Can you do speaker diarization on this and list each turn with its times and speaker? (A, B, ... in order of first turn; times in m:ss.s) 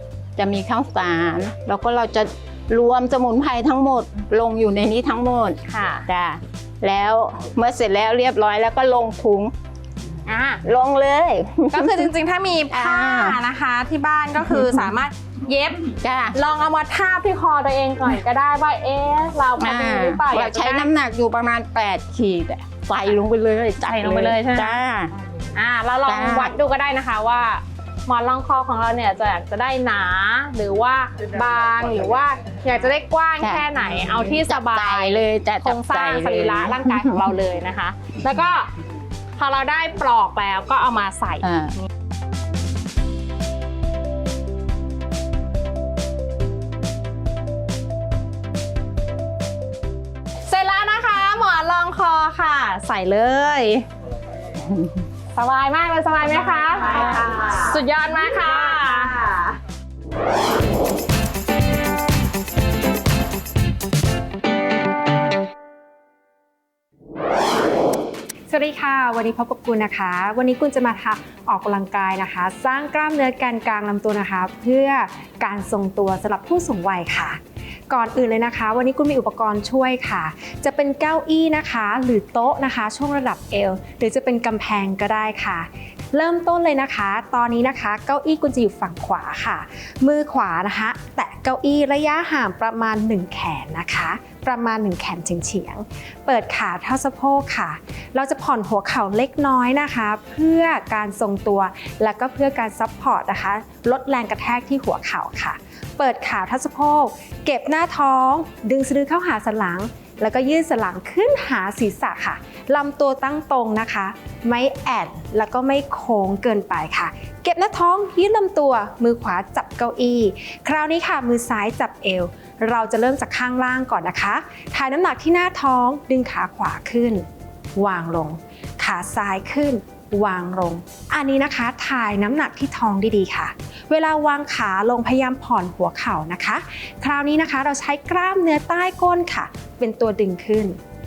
0:00.4-0:09.5 A
0:05.7-0:06.1 B
0:10.3-0:10.6 B
0:10.6-0:12.1 A
0:11.7-0:20.9 B
0:12.7-0:13.4 A
0:14.4-0:14.9 A
0:16.0-0:16.4 A
0:19.6-0:25.1 A
0:23.8-0:24.8 B
0:25.6-0:38.7 B
0:26.0-0:26.5 A
0:33.4-0:33.7 A
0:34.4-0:37.3 A
0:39.4-0:41.9 B
0:41.4-0:41.8 A
0:50.5-0:53.9 B
0:55.3-0:59.6 B
1:08.5-2:20.8 C